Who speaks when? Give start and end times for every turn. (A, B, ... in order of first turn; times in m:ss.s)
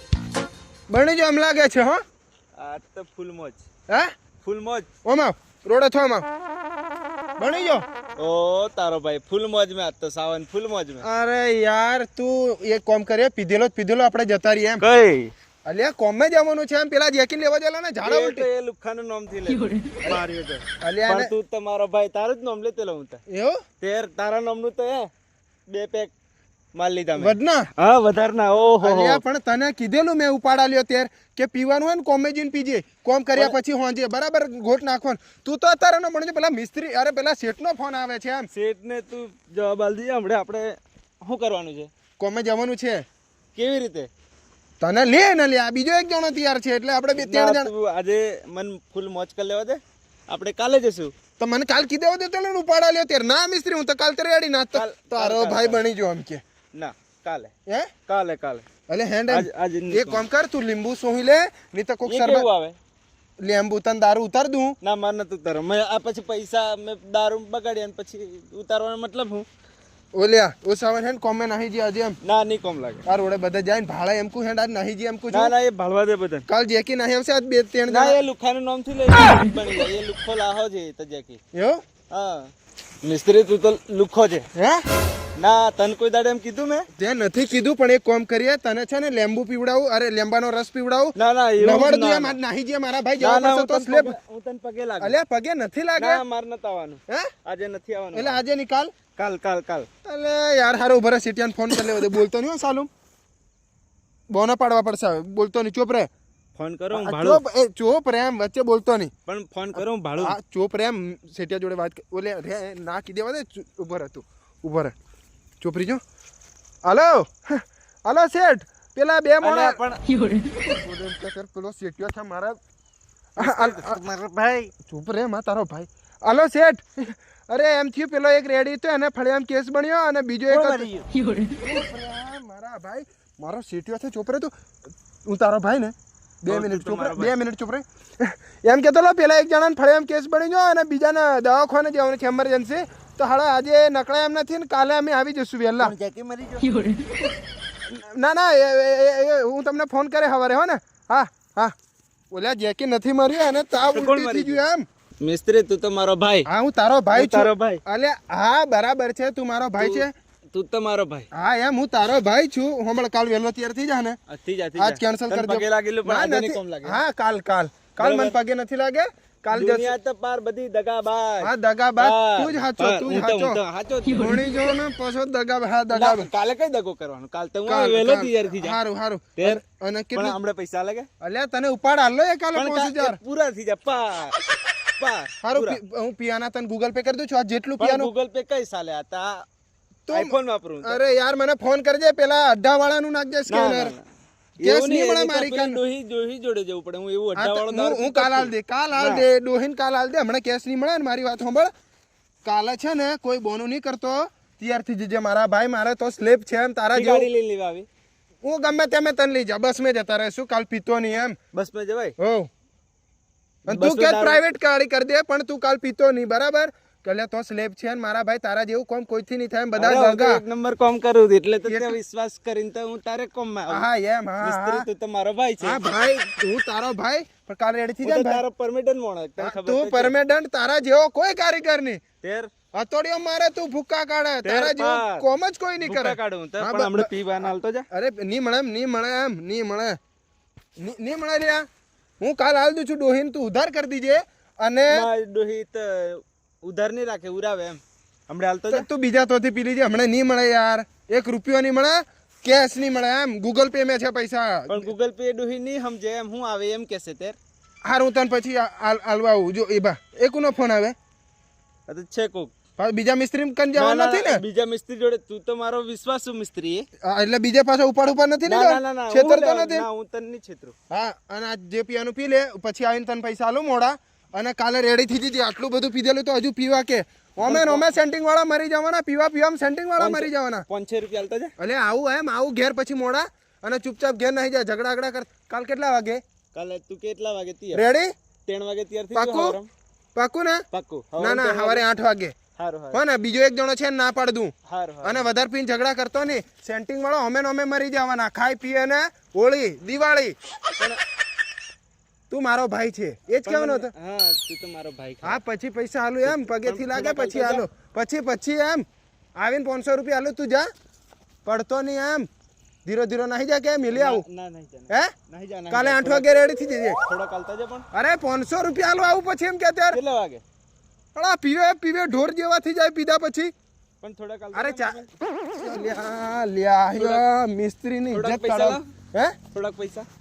0:00.9-0:02.0 A
0:02.6-0:03.6 B
0:04.4-0:04.9 B
0:05.0-0:06.3 A
0:07.4-0:07.8 A
0:08.2-0:11.0 B
0:11.0-0:14.8 A
0:14.8-0:15.3 B
0:15.7-0:18.5 A
0:18.0-0:23.2 B
0:20.8-0:21.3 A
0:23.3-0:23.6 A
0:23.8-0:25.1 B
0:25.7-0:26.1 B
0:26.7-0:29.2 B
0:27.2-0:27.7 A
0:28.8-0:38.5 A
0:38.5-0:41.9 B
0:42.2-0:43.0 A
0:43.6-0:44.1 B
0:44.8-0:47.7 A
0:47.2-0:51.1 B
0:51.4-0:56.4 A
0:54.7-0:55.8 B
0:56.7-0:57.5 B
0:58.1-0:58.6 B
0:58.9-1:02.5 A
0:59.3-1:00.2 B
1:02.0-1:02.8 B
1:03.4-1:04.8 A
1:04.8-1:09.5 B
1:10.2-1:12.2 A
1:12.2-1:13.0 B
1:13.1-1:15.5 A
1:15.3-1:16.5 B
1:16.5-1:18.2 A
1:17.9-1:21.4 B
1:21.5-1:21.8 A
1:22.1-1:22.5 B
1:23.0-1:24.5 B
1:24.6-1:24.8 A
1:25.4-1:26.9 B
1:27.0-1:34.2 A
1:31.2-1:32.4 B
1:33.2-1:35.2 B
1:35.0-1:36.2 A
1:36.0-1:38.4 B
1:38.1-1:38.9 A
1:39.2-1:39.9 B
1:40.0-1:42.9 A
1:44.3-1:46.1 A
1:46.6-1:47.4 B
1:46.9-1:49.1 A
1:49.3-1:50.4 B
1:50.2-1:54.9 A
1:55.6-1:56.0 A
1:56.8-1:59.8 A
1:59.4-2:00.0 B
2:00.6-2:02.6 A
2:03.4-2:04.0 A
2:03.4-2:04.7 B
2:04.9-2:10.9 A
2:10.5-2:11.0 B
2:11.6-2:14.5 A
2:15.3-2:26.0 A
2:16.5-2:17.3 B
2:25.8-2:26.7 B
2:27.9-2:31.7 A
2:32.3-2:34.8 A
2:33.9-2:34.6 B
2:35.2-2:36.5 B
2:36.5-2:40.1 A
2:37.1-2:37.8 B
2:39.8-2:41.3 B
2:41.3-2:44.2 A
2:44.3-2:47.0 B
2:44.8-2:49.9 A
2:48.0-2:48.4 B
2:49.5-2:54.4 B
2:51.4-2:53.6 A
2:54.2-2:56.3 A
2:55.9-2:58.8 B
2:57.7-3:00.4 A
3:00.1-3:01.1 B
3:01.2-3:03.2 A
3:02.6-3:04.4 B
3:05.0-3:05.8 B
3:05.4-3:08.1 A
3:07.8-3:09.4 B
3:10.1-3:14.0 A
3:10.1-3:11.0 B
3:13.5-3:14.1 B
3:14.6-3:19.3 B
3:14.6-3:15.8 A
3:17.4-3:21.7 A
3:22.4-3:27.3 A
3:26.9-3:27.9 B
3:28.4-3:31.4 A
3:31.5-3:32.1 B
3:32.2-3:32.5 A
3:33.7-3:40.4 A
3:33.7-3:34.4 B
3:39.8-3:43.9 B
3:41.7-3:42.0 A
3:43.7-3:44.9 A
3:44.4-3:45.8 B
3:45.6-3:48.4 A
3:48.0-3:50.1 B
3:49.4-3:52.0 A
3:52.2-3:52.5 B
3:52.7-3:57.1 A
3:54.4-3:55.3 B
3:55.8-3:57.8 B
3:57.9-4:00.0 A
4:00.8-4:01.7 A
4:02.2-4:05.1 A
4:04.9-4:08.9 B
4:08.7-4:14.9 A
4:14.7-4:17.4 B
4:17.8-4:21.0 A
4:21.9-4:22.5 B
4:22.8-4:24.4 A
4:23.7-4:26.9 B
4:27.0-4:29.9 A
4:28.5-4:30.8 B
4:30.9-4:40.6 A
4:37.4-4:38.0 B
4:40.0-4:41.5 B
4:41.6-4:46.2 A
4:46.5-4:47.8 B
4:47.7-4:48.1 A
4:48.5-4:49.7 B
4:49.1-4:49.6 A
4:50.2-4:50.6 A
4:50.7-4:51.8 B
4:51.2-4:52.4 A
4:52.6-4:53.0 B
4:52.9-5:00.4 A
4:54.7-4:55.3 B
5:02.3-5:03.9 A
5:03.5-5:05.4 B
5:05.2-5:08.8 A
5:06.2-5:07.7 B
5:09.4-5:10.7 A
5:11.4-5:12.3 A
5:12.8-5:14.2 A
5:13.9-5:16.4 B
5:15.7-5:17.0 A
5:17.0-5:17.9 B
5:17.9-5:20.0 A
5:19.9-5:20.4 B
5:21.2-5:23.5 A
5:24.0-5:25.1 B
5:24.5-5:29.4 A
5:27.0-5:27.2 B
5:28.1-5:28.9 B
5:29.5-5:30.1 B